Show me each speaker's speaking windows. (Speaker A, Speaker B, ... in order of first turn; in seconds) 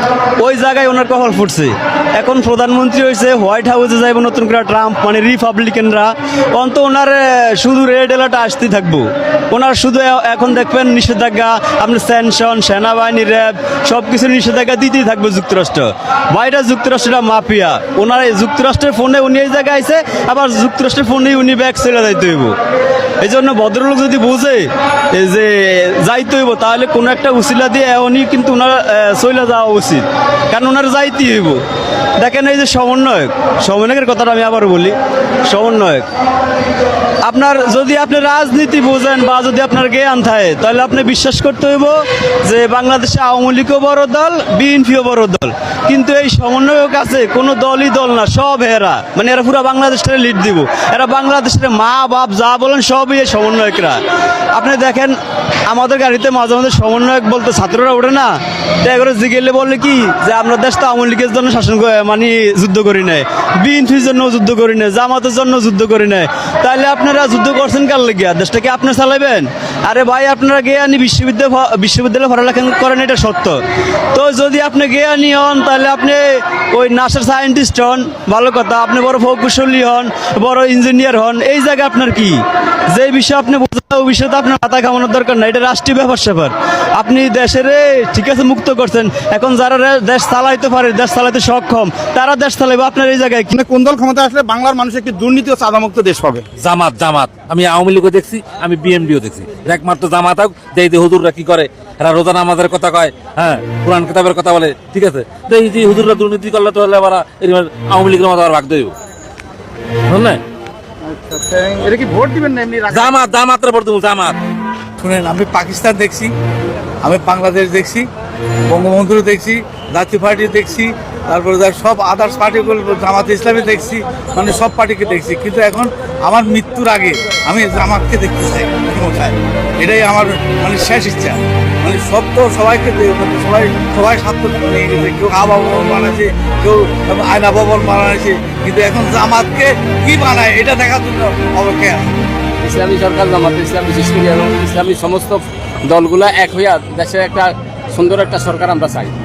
Speaker A: 0.4-22.6, 23.2-31.6, 32.2-36.1, 37.2-55.2, 55.7-73.6, 74.1-93.5
Speaker B: 93.5-96.5, 111.1-113.2
Speaker C: 96.7-108.9, 112.9-114.3
Speaker D: 115.0-116.3, 117.0-118.1, 118.7-142.1
Speaker E: 142.6-149.1